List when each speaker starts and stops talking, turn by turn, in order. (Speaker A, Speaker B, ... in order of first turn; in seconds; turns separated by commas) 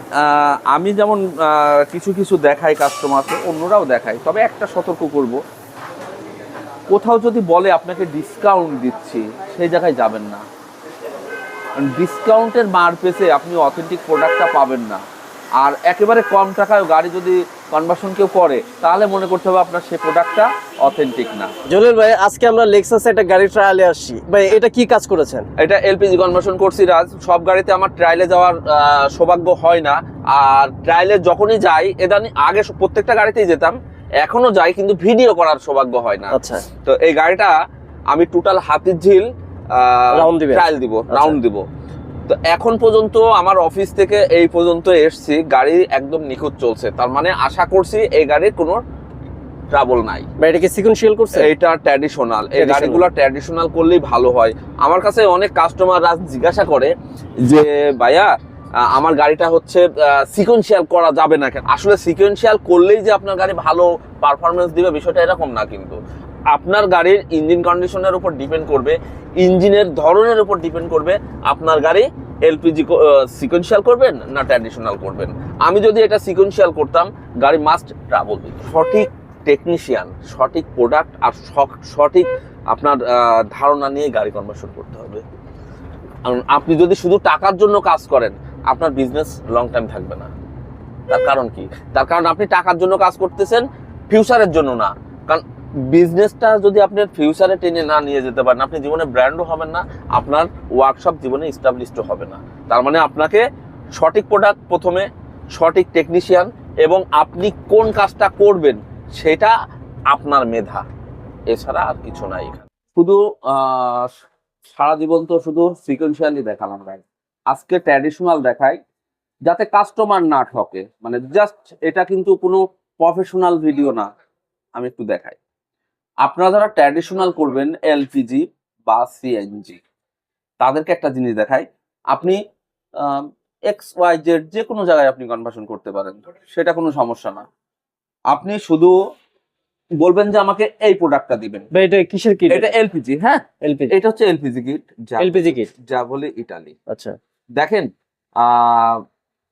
Speaker A: 0.2-5.4, Speaker A: 6.9-10.4, Speaker A: 11.8-15.0, Speaker A: 15.6-21.5, Speaker B: 21.7-25.5, Speaker A: 25.6-37.5, Speaker B: 36.3-36.7, Speaker A: 38.1-41.6, Speaker B: 40.1-41.4, Speaker A: 42.3-48.8, Speaker A: 49.7-50.3, Speaker B: 50.4-51.5, Speaker A: 51.4-58.3, Speaker B: 52.5-53.1, Speaker A: 58.8-66.0, Speaker A: 66.5-85.2, Speaker A: 86.2-90.3, Speaker A: 91.1-103.4, Speaker A: 104.0-109.5, Speaker A: 110.1-110.8, Speaker A: 111.5-114.1, Speaker A: 114.7-118.8, Speaker A: 119.5-124.1, Speaker A: 124.8-125.4, Speaker A: 126.2-129.8, Speaker A: 130.6-132.4, Speaker A: 133.0-137.4, Speaker A: 138.3-138.9, Speaker A: 140.0-141.7, Speaker B: 141.7-142.7, Speaker A: 142.5-146.8, Speaker B: 143.6-143.9, Speaker B: 145.2-145.7, Speaker B: 146.9-147.2, Speaker A: 147.6-147.9, Speaker A: 148.4-149.0